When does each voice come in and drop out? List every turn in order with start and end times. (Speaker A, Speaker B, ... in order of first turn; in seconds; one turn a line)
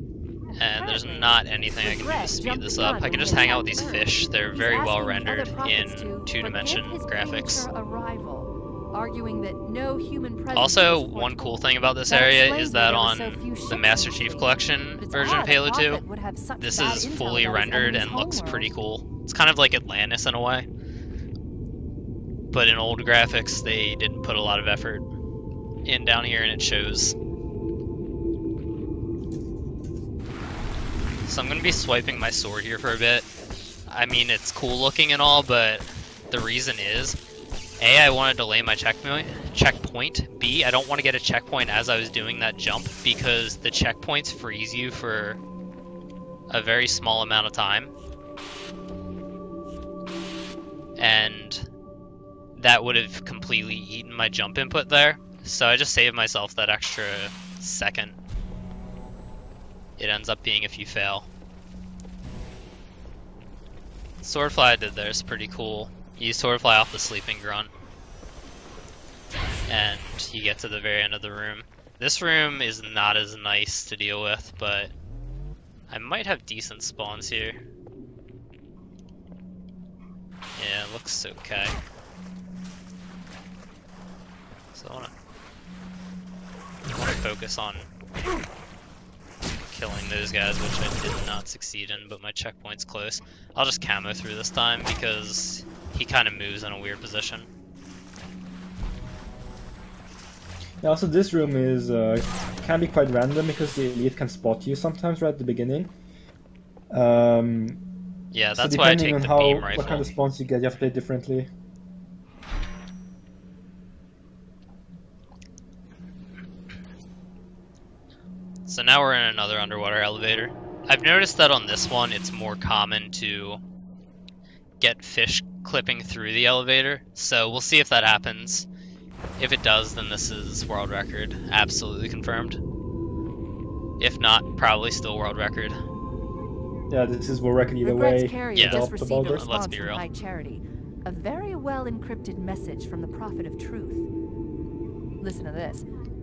Speaker A: 0.5-18.7
Speaker B: 0.6-7.7
Speaker B: 10.5-16.0
Speaker B: 16.6-20.7
Speaker B: 22.5-25.1
Speaker B: 25.8-27.1
Speaker B: 31.2-33.3
Speaker B: 33.9-37.2
Speaker B: 37.8-45.4
Speaker B: 46.5-47.9
Speaker B: 51.0-51.7
Speaker B: 52.5-58.2
Speaker B: 60.0-61.3
Speaker B: 64.2-67.7
Speaker B: 69.7-74.9
Speaker B: 75.9-77.6
Speaker B: 80.5-81.8
Speaker B: 84.7-85.1
Speaker B: 86.9-87.9
Speaker B: 89.7-97.5
Speaker C: 100.8-105.9
Speaker C: 106.9-107.8
Speaker B: 108.3-110.1
Speaker C: 108.5-111.5
Speaker B: 118.7-123.6
Speaker B: 124.8-128.7
Speaker B: 129.4-132.6
Speaker B: 134.0-135.8
Speaker C: 136.9-139.4
Speaker A: 137.8-144.1
Speaker B: 138.5-140.0
Speaker A: 145.2-145.8